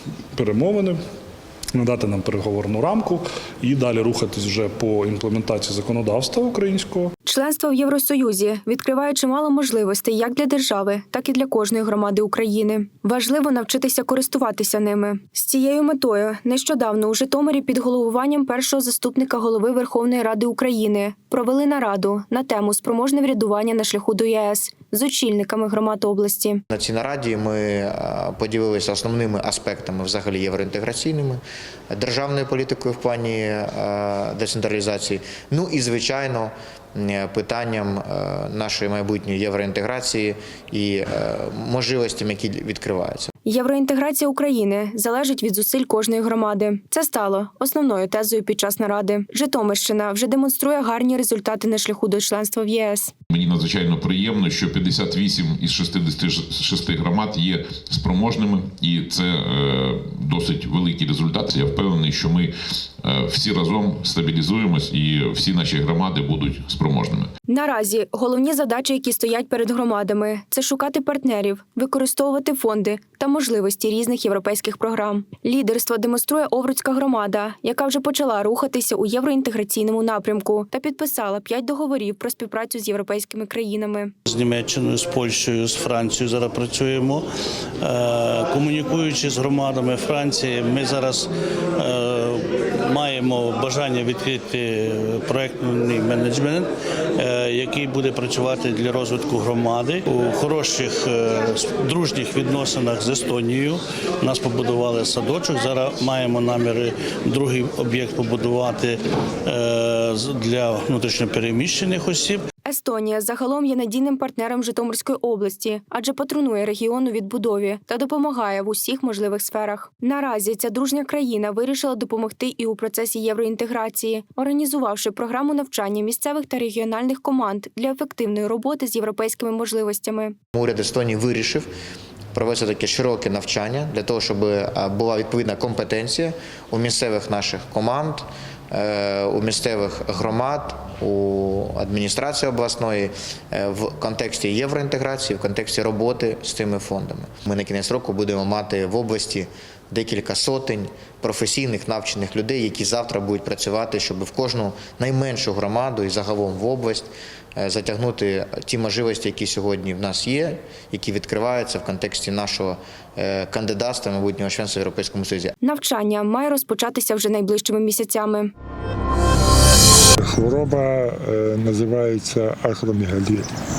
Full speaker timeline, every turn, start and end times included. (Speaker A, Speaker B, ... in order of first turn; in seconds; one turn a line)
Speaker A: 0.3-1.0
Speaker A: 1.8-7.1
Speaker B: 7.3-26.6
Speaker C: 26.7-31.4
Speaker C: 31.9-43.3
Speaker B: 43.5-53.1
Speaker D: 53.3-67.3
Speaker B: 67.5-84.2
Speaker E: 84.3-87.3
Speaker E: 87.8-112.4
Speaker B: 112.7-130.4
Speaker C: 130.5-131.7
Speaker C: 132.3-165.5
Speaker B: 165.6-168.5
Speaker F: 170.2-173.5